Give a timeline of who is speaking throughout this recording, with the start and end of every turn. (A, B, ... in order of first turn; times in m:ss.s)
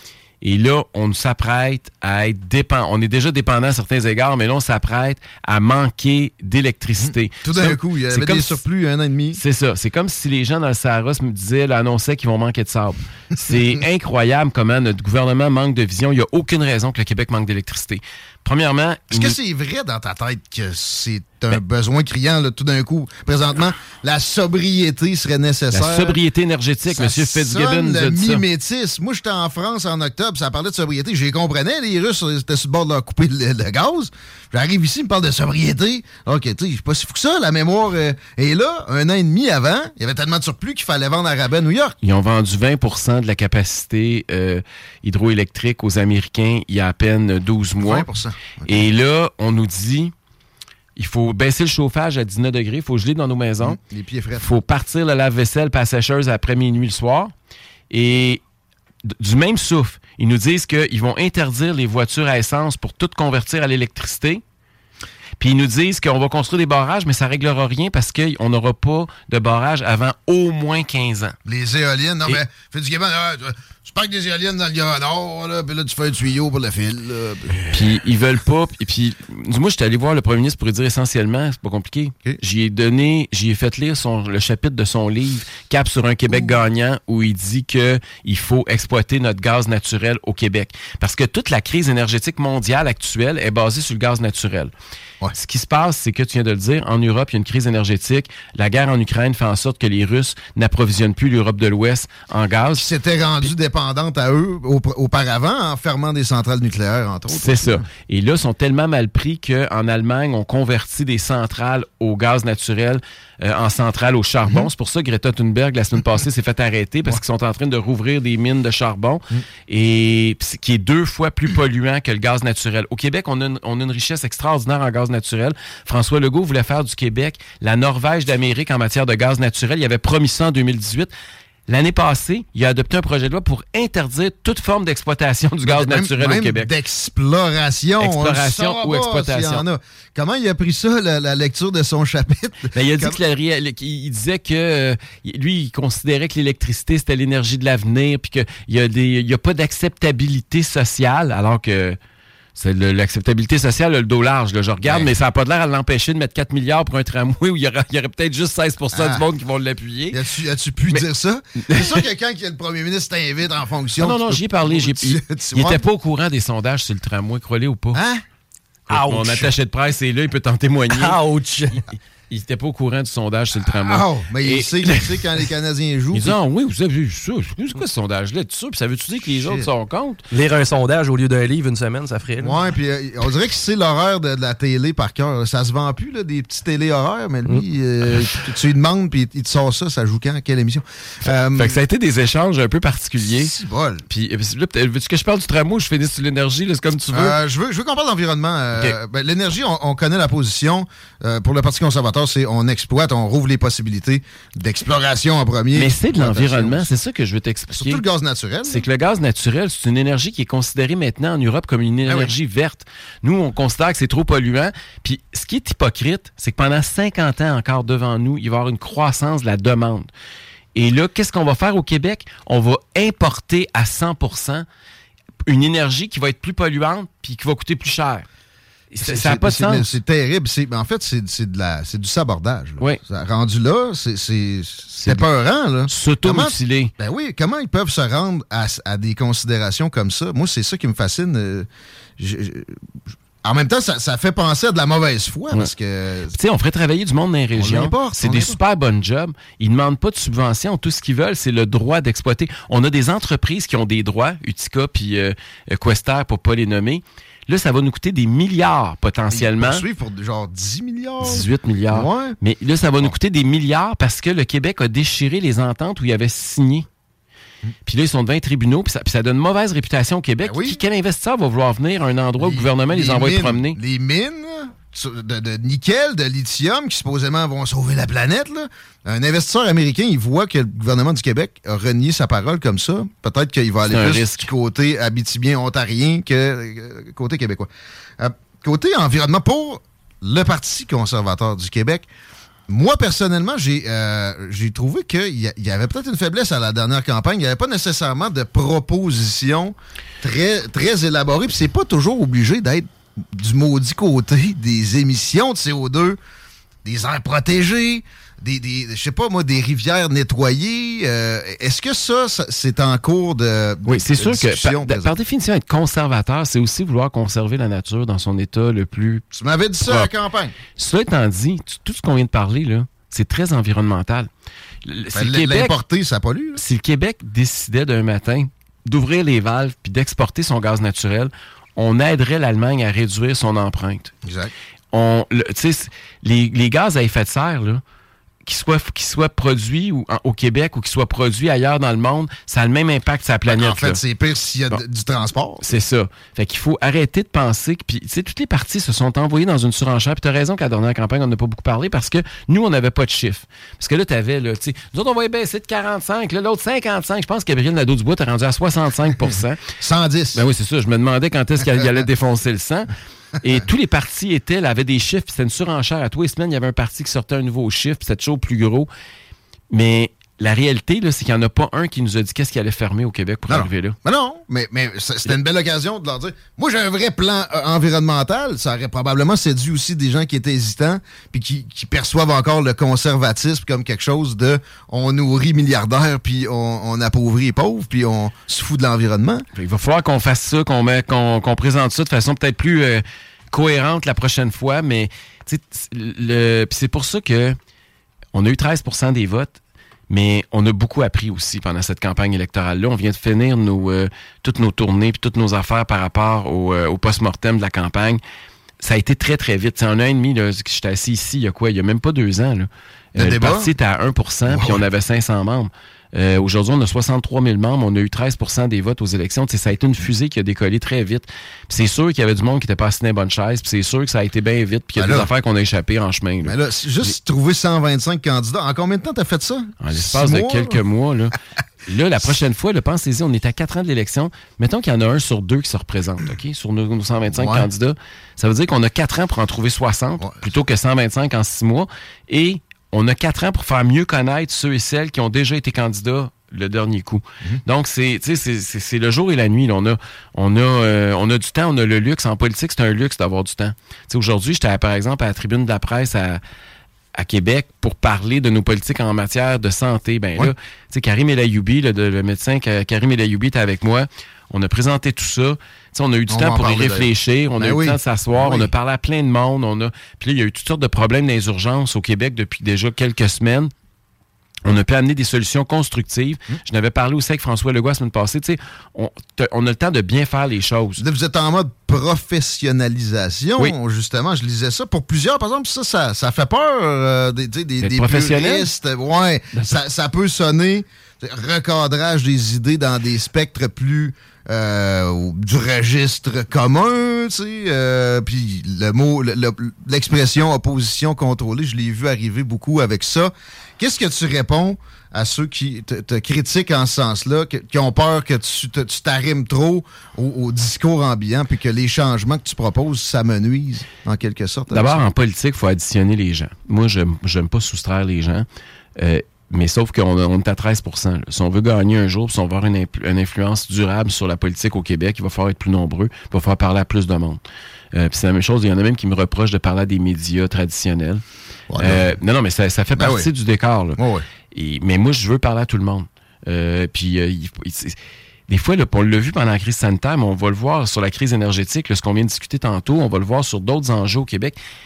0:00.4-0:08.6 A
0:07.0-0:09.4 B
0:09.3-0:19.4 A
0:19.1-0:26.2 B
0:25.7-0:28.4 A
0:26.8-0:42.0 B
0:42.0-0:48.1 A
0:47.8-0:48.9 B
0:48.6-0:50.1 A
0:51.0-0:53.8 A
0:53.6-0:54.5 B
0:54.3-0:57.3 A
0:57.9-0:58.4 A
0:59.1-1:04.4 A
1:05.4-1:11.4 A
1:11.4-1:17.6 B
1:17.6-1:34.7 A
1:26.3-1:26.6 B
1:35.4-1:42.9 A
1:42.8-1:47.8 B
1:47.3-2:11.1 A
2:11.7-2:16.7 A
2:15.6-2:23.2 B
2:18.0-2:19.6 A
2:22.7-2:32.0 A
2:32.6-2:40.2 A
2:34.8-2:35.1 B
2:38.9-2:39.2 B
2:40.1-2:45.8 B
2:41.6-2:42.0 A
2:44.0-2:48.0 A
2:47.9-2:48.2 B
2:48.9-2:49.5 C
2:48.9-2:51.2 A
2:50.9-2:51.8 C
2:52.3-2:55.2 A
2:53.6-2:56.4 B
2:56.1-3:00.2 A
2:59.2-2:59.7 B
3:00.3-3:02.6 C
3:02.4-3:11.8 B
3:11.6-3:13.5 A
3:13.2-3:14.0 B
3:14.1-3:17.4 A
3:17.1-3:26.9 B
3:25.7-3:28.0 A
3:27.7-3:28.8 B
3:28.6-3:40.1 A
3:32.1-3:32.3 B
3:40.7-3:44.6 A
3:45.5-3:48.2 A
3:48.9-3:49.9 A
3:49.0-4:02.8 B
3:55.9-3:56.9 A
4:03.4-4:06.4 B
4:06.3-4:19.8 A
4:07.6-4:08.6 B
4:19.3-4:22.4 B
4:21.2-4:26.8 A
4:27.8-4:33.8 A
4:30.4-4:30.8 B
4:32.4-4:52.0 B
4:43.8-4:44.5 A
4:52.7-5:06.2 B
5:06.8-5:15.1 B
5:13.9-5:19.2 A
5:19.3-5:20.5 B
5:19.8-5:20.1 A
5:20.7-5:24.3 A
5:24.8-5:25.8 A
5:25.1-5:26.6 B
5:26.6-5:34.1 A
5:34.2-5:34.5 B
5:34.9-5:37.8 A
5:38.4-5:44.0 A
5:43.4-5:45.6 B
5:45.6-5:59.6 A
5:59.8-6:00.4 B
6:00.3-6:02.9 A
6:03.4-6:08.9 A
6:09.7-6:14.0 A
6:13.5-6:29.4 B
6:29.6-6:37.6 A
6:38.3-6:39.6 A
6:40.1-6:48.2 A
6:48.8-7:07.1 A
6:53.2-6:53.7 B
6:54.5-6:54.8 B
7:05.0-7:05.3 B
7:06.4-7:10.8 B
7:09.8-7:11.3 A
7:11.9-7:36.4 A
7:17.3-7:17.7 B
7:37.2-7:53.7 A
7:46.3-7:48.7 B
7:54.6-8:01.0 A
8:01.0-8:35.0 B
8:07.8-8:08.7 A
8:34.7-8:38.4 A
8:39.0-8:47.4 A
8:47.9-8:51.2 A
8:51.7-8:52.1 B
8:51.8-8:54.0 A
8:53.0-8:53.3 B
8:54.0-8:54.2 B
8:54.5-8:57.9 A
8:58.5-9:04.6 A